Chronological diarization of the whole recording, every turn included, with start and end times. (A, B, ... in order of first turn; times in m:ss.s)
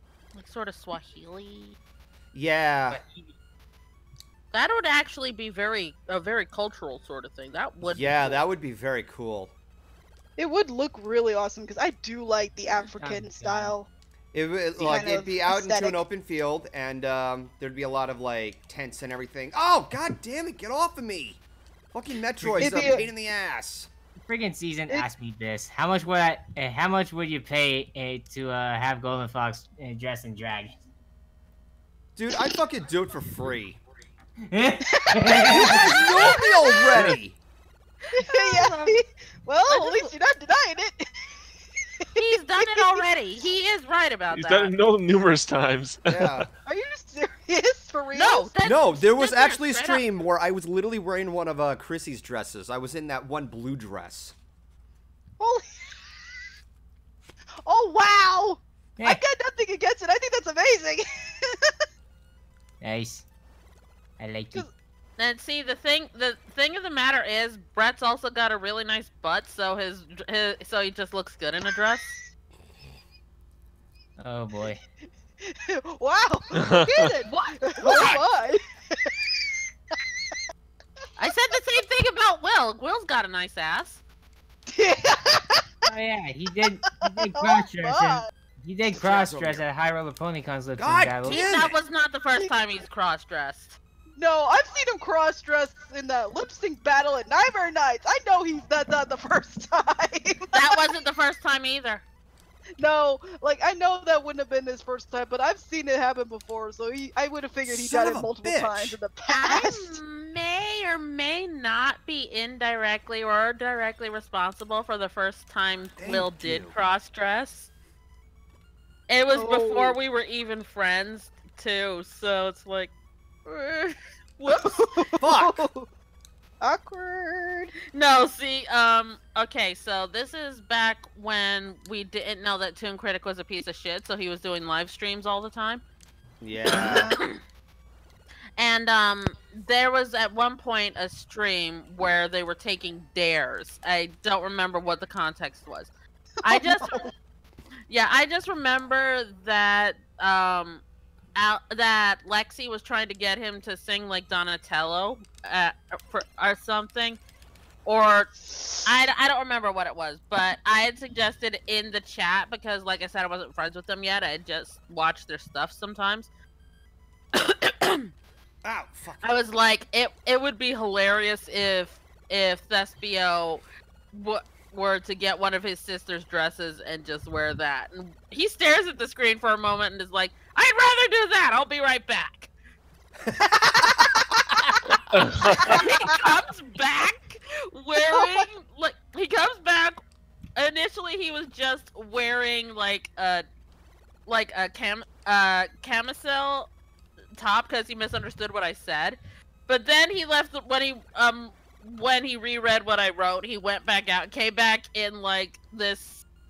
0:00.3-0:01.8 A
0:02.3-0:03.0 B
0:02.9-0:03.2 C
0:04.5-0:08.4 A
0:07.9-0:09.5 B
0:10.4-0:13.9 D
0:13.0-0:13.8 C
0:14.3-0:21.4 B
0:14.8-0:15.1 C
0:14.8-0:16.0 D
0:21.9-0:23.9 B
0:22.4-0:22.7 E
0:22.6-0:23.1 D
0:24.3-0:30.8 C
0:32.2-0:33.8 B
0:34.5-0:36.0 C
0:35.0-0:36.8 D
0:35.5-0:37.4 B
0:38.1-0:41.1 D
0:38.2-0:39.0 A
0:39.7-0:40.1 A
0:42.0-0:43.0 D
0:42.2-0:44.7 A
0:44.3-0:46.5 E
0:46.1-0:46.5 B
0:46.6-0:48.5 D
0:48.1-0:50.0 A
0:48.6-0:54.4 B
0:55.4-0:55.6 D
0:57.6-1:01.8 D
0:59.0-0:59.2 C
1:02.8-1:03.3 C
1:04.2-1:04.7 C
1:05.2-1:12.2 A
1:14.2-1:14.8 C
1:15.4-1:19.3 D
1:16.5-1:17.1 E
1:17.3-1:18.2 A
1:17.8-1:18.2 B
1:19.9-1:20.4 D
1:21.2-1:24.0 A
1:24.7-1:25.9 D
1:25.8-1:31.4 C
1:27.2-1:28.3 D
1:28.9-1:29.6 B
1:30.8-1:31.8 B
1:31.3-1:33.8 A
1:34.2-1:40.8 D
1:40.5-1:42.0 A
1:42.8-1:50.0 D
1:47.7-1:49.0 B
1:49.3-1:57.7 A
1:56.0-1:56.7 B
1:59.1-2:02.9 A
1:59.4-2:00.0 D
2:03.5-2:04.8 A
2:04.5-2:05.9 D
2:05.2-2:05.7 B
2:06.6-2:07.7 D
2:07.9-2:15.8 A
2:16.4-2:17.2 B
2:16.7-2:17.4 A
2:18.6-2:25.9 A
2:26.4-2:27.0 A
2:26.5-2:27.1 D
2:27.9-2:30.8 A
2:31.4-2:37.2 A
2:37.8-2:46.3 A
2:47.4-2:48.1 A
2:48.6-2:49.2 B
2:49.2-3:02.5 A
3:03.3-3:04.8 B
3:05.1-3:05.8 E
3:05.6-3:10.0 A
3:08.1-3:08.5 D
3:10.6-3:13.4 A
3:14.3-3:16.7 A
3:17.4-3:26.2 A